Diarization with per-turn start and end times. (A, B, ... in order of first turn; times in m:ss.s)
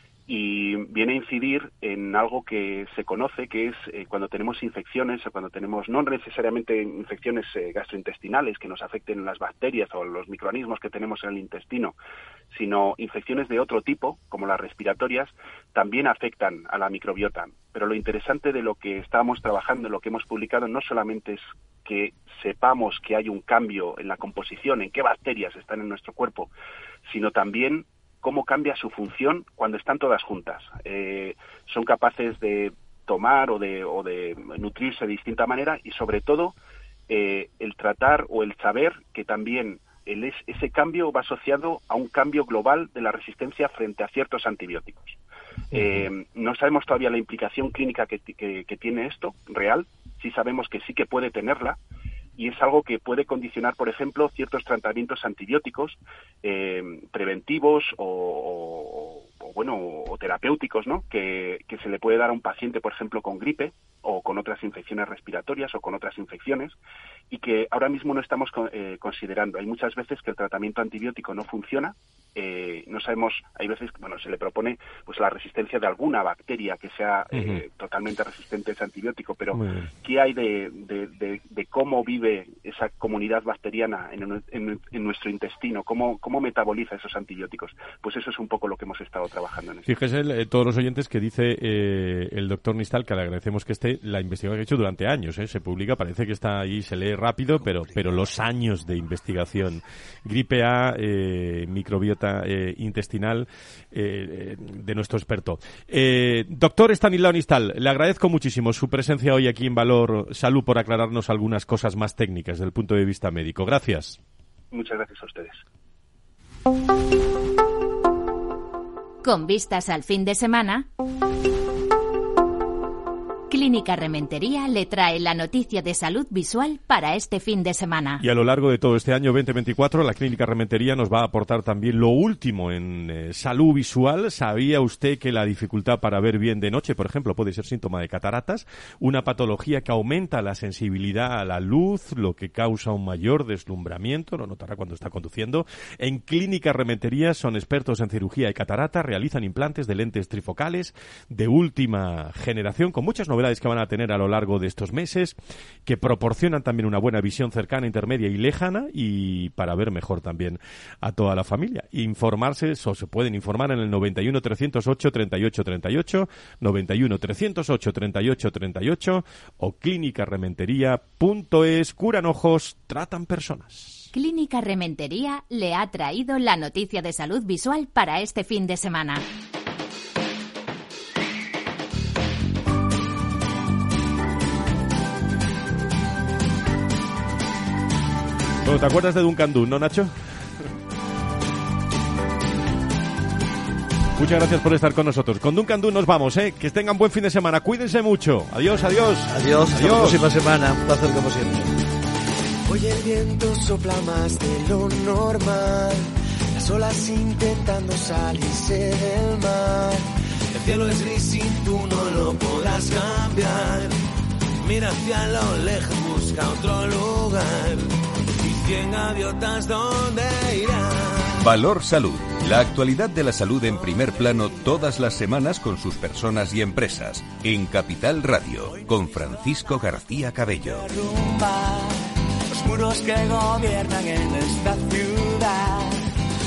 0:00.3-0:12.0 A
0:12.5-0:26.5 A
0:27.1-0:36.6 A
0:37.1-0:45.2 A
0:45.7-0:51.8 A
0:45.7-0:46.1 B
0:52.4-1:06.8 A
1:07.3-1:29.9 A
1:17.3-1:17.6 B
1:19.5-1:19.9 B
1:29.8-1:54.2 B
1:54.7-1:55.6 A
1:59.2-2:00.9 C
2:03.5-2:08.2 C
2:08.2-2:54.1 B
2:54.1-2:59.2 C
3:08.6-3:10.2 B
3:14.2-3:20.2 B
3:19.3-3:21.8 D
3:22.7-3:30.0 E
3:30.5-3:34.0 E
3:34.6-3:41.3 E
3:41.4-3:50.9 F
3:50.6-3:56.0 E